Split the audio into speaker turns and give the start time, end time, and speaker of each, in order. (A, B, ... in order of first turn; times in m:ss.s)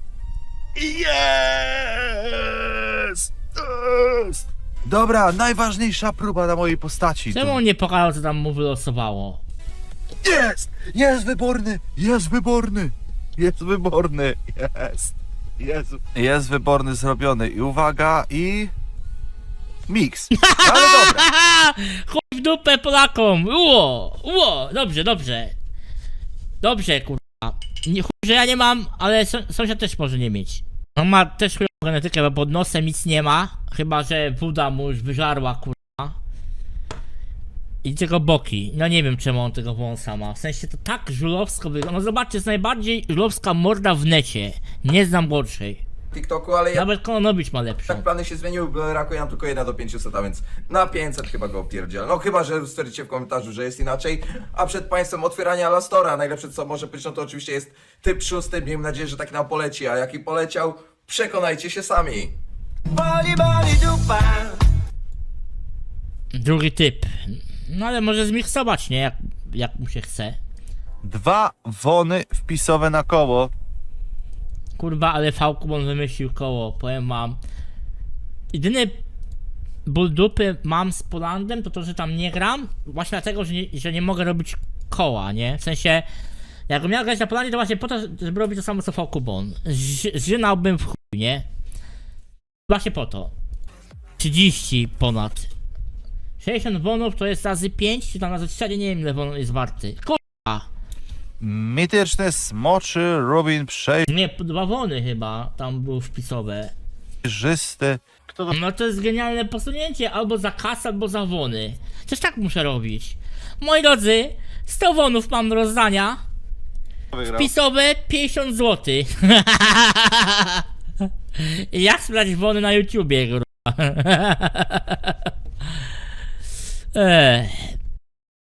0:00.8-0:07.6 A
0:07.3-0:09.4 B
0:10.2-0:18.7 A
0:19.9-0:21.3 A
0:20.3-0:25.5 B
0:26.6-0:36.2 B
0:37.8-0:45.8 B
0:46.1-0:46.9 C
0:46.7-0:48.1 B
0:47.9-1:02.3 C
1:02.9-1:04.6 C
1:06.3-1:10.4 B
1:11.0-1:13.5 A
1:14.8-1:17.4 B
1:18.5-1:19.0 B
1:19.9-1:26.1 B
1:26.7-1:31.5 B
1:32.7-1:33.3 B
1:34.2-1:35.5 B
1:36.4-1:40.7 B
1:41.4-1:44.1 A
1:44.1-1:46.7 B
1:47.3-1:48.5 A
1:48.5-1:56.2 B
1:57.1-1:57.5 A
1:57.3-2:00.7 B
2:01.3-2:05.3 B
2:06.9-2:07.8 B